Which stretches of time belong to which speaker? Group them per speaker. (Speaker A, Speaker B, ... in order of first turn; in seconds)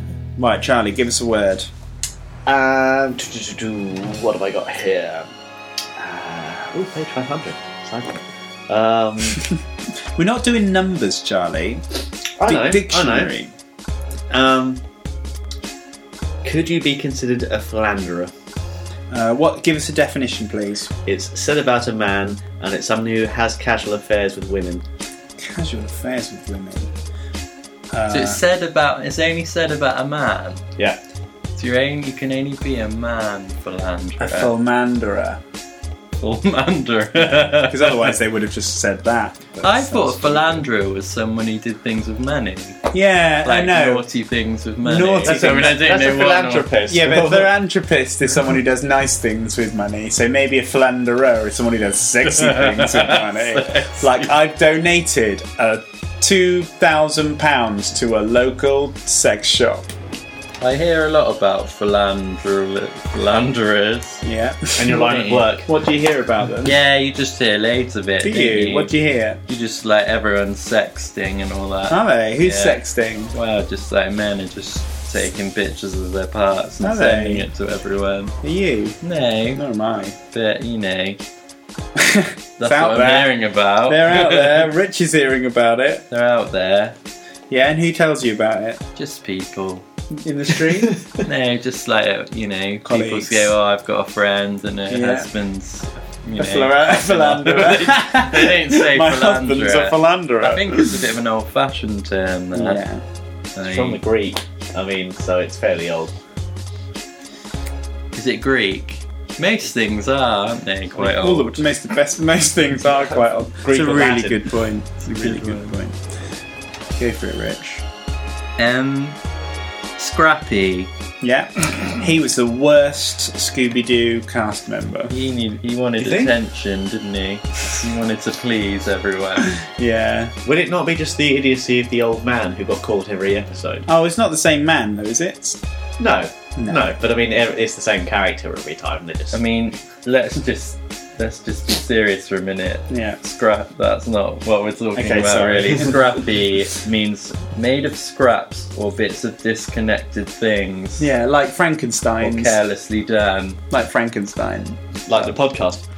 Speaker A: 0.4-1.7, 10.2-11.8, 12.4-13.5, 19.1-20.9, 25.4-26.9, 27.9-28.4, 34.2-35.4, 37.6-40.6, 42.9-44.1, 44.8-45.8, 46.9-59.9, 64.2-65.1, 65.7-66.8, 68.2-69.4, 71.9-73.3, 76.8-77.5, 78.4-79.0, 79.6-80.2, 82.0-86.0, 87.5-88.8, 90.2-91.0, 92.8-93.5, 94.9-95.3, 96.4-101.0, 102.5-103.0, 111.0-116.0, 117.0-117.8, 121.2-125.1, 129.4-130.3, 133.9-135.6, 136.6-136.9, 142.9-143.2, 144.9-146.0, 151.0-152.6, 153.7-155.3
Speaker B: 2.5-5.3, 6.0-9.4, 12.4-13.3, 14.3-14.8, 16.4-18.3, 21.1-24.9, 45.2-47.5, 64.8-65.8, 103.6-106.1, 113.6-114.5, 126.0-126.3, 130.4-133.9, 136.0-139.4, 155.1-155.8
Speaker C: 28.1-30.6, 31.6-34.5, 36.2-38.2, 39.6-42.8, 43.4-46.7, 52.2-54.3, 60.6-64.2, 64.9-65.5, 66.6-68.9, 69.5-72.8, 73.3-78.3, 79.0-79.6, 80.3-81.2, 82.6-84.7, 86.1-87.0, 89.0-89.8, 91.2-102.8, 103.6-104.0, 108.2-111.7, 115.1-115.7, 118.6-119.2, 120.0-120.9, 125.1-129.6, 139.3-151.1, 152.2-153.6